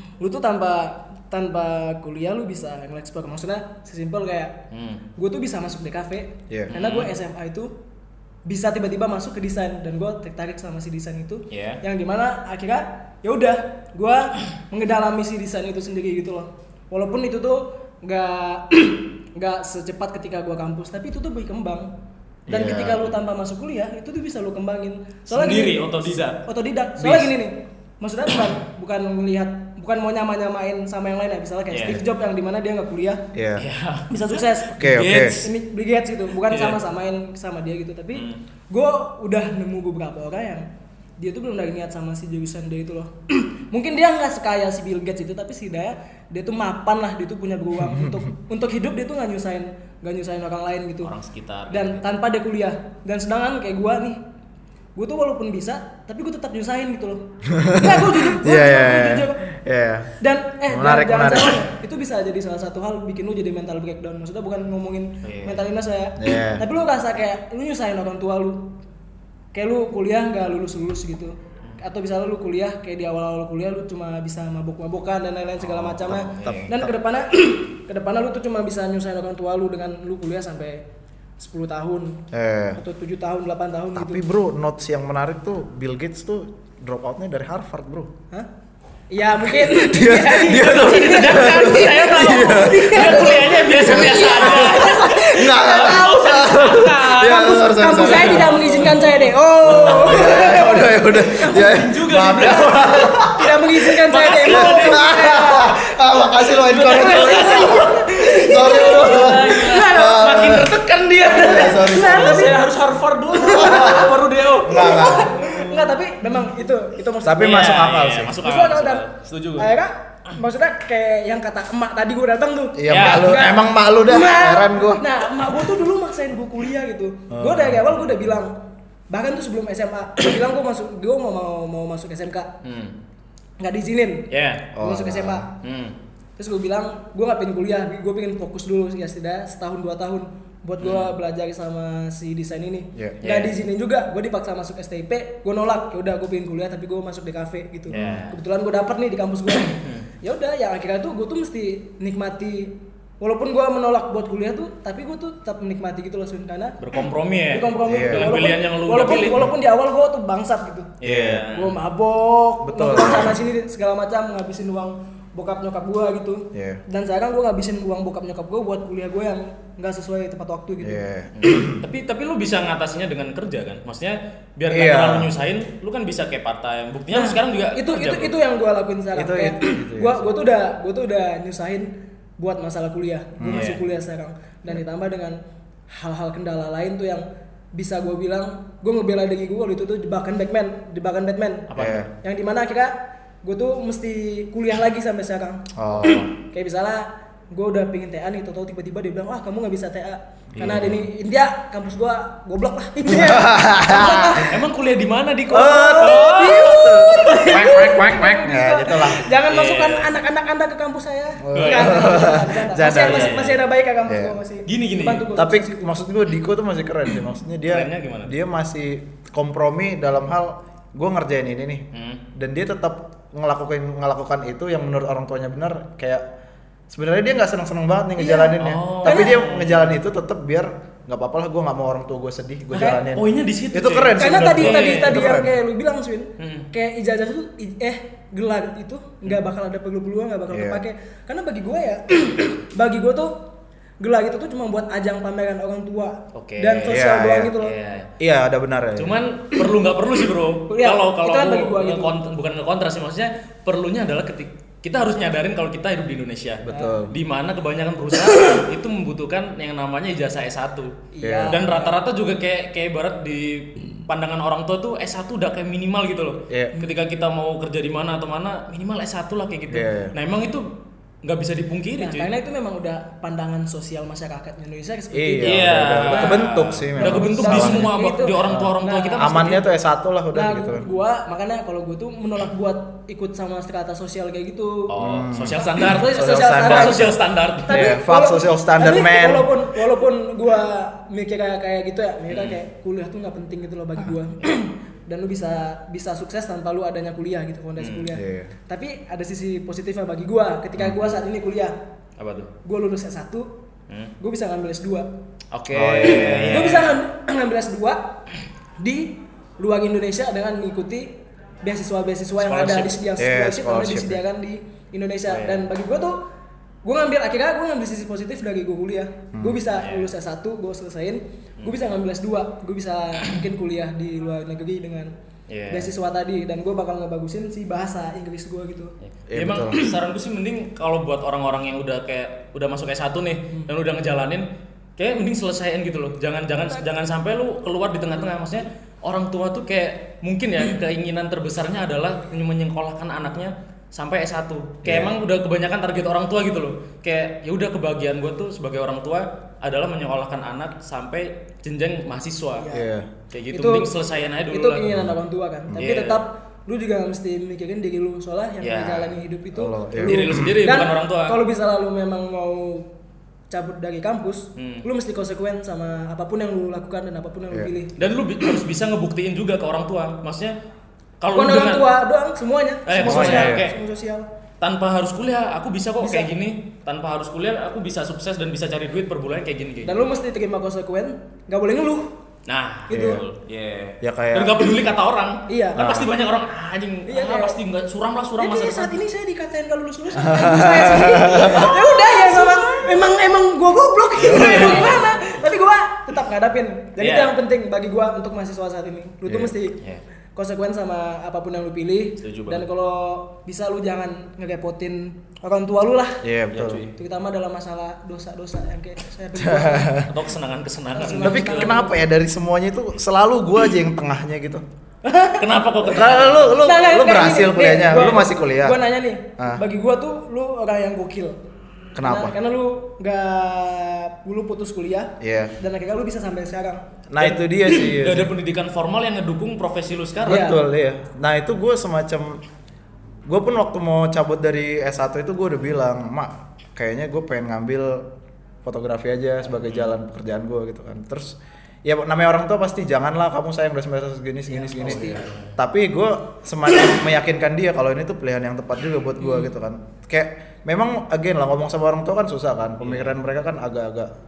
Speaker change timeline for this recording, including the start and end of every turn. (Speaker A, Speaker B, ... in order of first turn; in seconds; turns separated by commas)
Speaker A: 0.2-4.6, Speaker B: 4.7-5.0, Speaker A: 5.2-7.7, Speaker B: 6.7-7.1, Speaker A: 8.5-21.9, Speaker B: 11.5-11.8, Speaker C: 22.5-23.0, Speaker A: 22.5-33.2, Speaker B: 25.3-26.4, Speaker B: 27.0-27.3, Speaker B: 31.7-32.0, Speaker C: 33.3-33.6, Speaker B: 33.6-35.5, Speaker A: 34.1-40.6, Speaker C: 34.8-35.4, Speaker B: 36.5-36.8, Speaker B: 38.1-38.4, Speaker A: 41.2-51.1, Speaker C: 47.8-48.2, Speaker B: 51.0-52.0, Speaker A: 51.7-54.2, Speaker A: 55.0-59.4, Speaker C: 57.5-60.1, Speaker A: 60.2-68.7, Speaker C: 60.7-61.6, Speaker B: 65.2-65.6, Speaker C: 66.2-66.6, Speaker A: 69.5-80.8, Speaker B: 76.0-76.7, Speaker C: 76.0-76.9, Speaker A: 81.4-82.2, Speaker C: 82.3-82.8, Speaker A: 82.8-84.2, Speaker C: 84.0-88.1, Speaker A: 89.1-96.6, Speaker C: 89.6-98.9, Speaker B: 90.7-100.6, Speaker A: 97.2-101.8, Speaker C: 99.6-103.5, Speaker B: 101.5-103.2, Speaker A: 103.3-105.7, Speaker B: 104.1-105.2, Speaker C: 104.4-112.6, Speaker B: 106.6-115.7, Speaker A: 107.1-110.3, Speaker A: 111.3-112.6, Speaker C: 113.4-115.6, Speaker A: 113.4-114.1, Speaker A: 114.8-117.7, Speaker C: 117.2-118.4, Speaker B: 117.4-119.7, Speaker A: 118.4-119.0, Speaker A: 119.6-128.5, Speaker C: 122.8-125.1, Speaker B: 122.9-123.5, Speaker C: 127.3-127.9, Speaker A: 129.1-132.5, Speaker B: 132.6-132.9, Speaker A: 133.6-134.3, Speaker B: 134.3-134.7, Speaker C: 134.7-135.5, Speaker A: 134.8-135.5, Speaker B: 135.6-136.0, Speaker A: 136.4-156.8, Speaker B: 140.8-141.1, Speaker C: 142.9-143.2, Speaker B: 143.2-143.5, Speaker C: 147.9-148.2, Speaker B: 147.9-148.4, Speaker B: 156.8-159.5, Speaker A: 157.5-160.9, Speaker C: 157.8-158.4, Speaker B: 161.0-161.8, Speaker C: 161.0-161.5, Speaker A: 161.5-171.0, Speaker C: 162.6-163.4, Speaker C: 166.5-166.8, Speaker C: 170.8-171.8, Speaker B: 171.4-178.4, Speaker C: 174.7-175.3, Speaker A: 177.1-185.4, Speaker C: 179.1-180.3, Speaker C: 183.4-183.8, Speaker A: 185.9-191.7, Speaker B: 191.7-192.0, Speaker C: 191.8-192.1, Speaker A: 192.2-204.5, Speaker C: 195.8-196.3, Speaker C: 200.6-201.0, Speaker C: 203.1-204.5, Speaker B: 204.4-207.7, Speaker C: 205.5-209.2, Speaker A: 205.5-215.9, Speaker B: 209.4-210.1, Speaker C: 211.4-213.4, Speaker B: 211.5-213.6, Speaker C: 214.1-214.4, Speaker B: 214.7-215.3, Speaker C: 215.3-226.2, Speaker B: 217.7-218.3, Speaker B: 221.9-222.2, Speaker C: 226.9-235.5, Speaker A: 228.2-229.3, Speaker B: 228.6-229.9, Speaker A: 232.8-233.0, Speaker B: 232.8-235.4, Speaker A: 234.2-243.4, Speaker B: 236.4-236.7, Speaker C: 240.5-240.8, Speaker A: 244.0-247.7, Speaker B: 246.3-247.0, Speaker C: 246.9-247.5, Speaker B: 247.6-248.1, Speaker C: 248.2-249.2, Speaker B: 249.0-260.9, Speaker A: 250.7-252.1, Speaker C: 256.6-257.1, Speaker A: 261.1-262.0, Speaker C: 261.2-261.6, Speaker B: 261.5-270.7, Speaker C: 266.5-266.8, Speaker C: 269.7-270.1, Speaker B: 271.2-272.3, Speaker A: 272.0-276.5, Speaker C: 275.1-277.9, Speaker B: 275.4-279.6, Speaker A: 277.0-279.6, Speaker C: 278.5-280.9, Speaker A: 280.3-284.9, Speaker B: 284.9-287.9, Speaker C: 285.0-289.5, Speaker A: 285.7-287.1, Speaker A: 287.7-301.8, Speaker B: 292.3-292.6, Speaker B: 297.8-298.1, Speaker C: 298.1-298.5, Speaker C: 300.8-301.1, Speaker B: 302.2-302.5, Speaker A: 302.6-303.5, Speaker A: 304.2-305.1, Speaker B: 305.5-307.0, Speaker C: 305.7-306.8, Speaker A: 306.0-308.1, Speaker A: 308.8-311.1, Speaker A: 311.6-316.2, Speaker B: 312.4-313.0, Speaker C: 313.2-314.2, Speaker B: 315.3-315.6, Speaker A: 316.8-325.1, Speaker C: 319.3-319.6, Speaker B: 319.8-320.1, Speaker B: 325.5-325.9, Speaker A: 325.7-328.9, Speaker B: 329.0-352.7, Speaker C: 329.3-329.8, Speaker C: 344.8-345.1, Speaker A: 352.6-352.9, Speaker C: 352.7-353.1, Speaker B: 353.3-354.9, Speaker A: 353.5-353.9, Speaker A: 354.5-362.9, Speaker B: 355.8-356.2, Speaker B: 358.6-359.2, Speaker C: 359.6-360.6, Speaker B: 360.0-361.4, Speaker A: 363.5-367.9, Speaker B: 364.6-364.9, Speaker B: 368.0-370.6, Speaker B: 371.2-371.9, Speaker A: 371.3-374.3, Speaker B: 372.9-373.8, Speaker C: 373.0-373.7, Speaker B: 374.6-380.1, Speaker A: 376.0-376.3, Speaker A: 379.9-382.1, Speaker B: 382.5-389.0, Speaker A: 382.9-383.2, Speaker C: 382.9-383.2, Speaker C: 384.0-384.8, Speaker A: 385.5-385.8, Speaker C: 385.8-386.1, Speaker A: 387.1-387.6, Speaker A: 388.4-399.8, Speaker C: 390.2-391.7, Speaker B: 391.4-392.8, Speaker C: 394.2-394.9, Speaker B: 394.2-395.1, Speaker B: 397.0-397.4, Speaker C: 399.3-399.5, Speaker A: 400.4-406.2, Speaker B: 402.2-402.6, Speaker C: 406.2-406.8, Speaker B: 406.5-406.9, Speaker A: 407.0-410.1, Speaker C: 409.4-410.1, Speaker B: 410.1-411.8, Speaker A: 410.9-412.0, Speaker C: 411.2-414.6, Speaker A: 415.1-415.6, Speaker B: 415.4-416.7, Speaker C: 415.9-418.8, Speaker A: 416.6-421.4, Speaker C: 419.4-419.6, Speaker C: 421.9-422.4, Speaker A: 422.0-426.8, Speaker C: 425.2-425.5, Speaker C: 427.1-428.3, Speaker B: 427.2-430.5, Speaker C: 430.2-432.4, Speaker A: 430.3-430.6, Speaker C: 433.3-438.1, Speaker C: 438.6-454.1, Speaker B: 439.6-439.9, Speaker B: 444.7-445.5, Speaker B: 452.8-453.2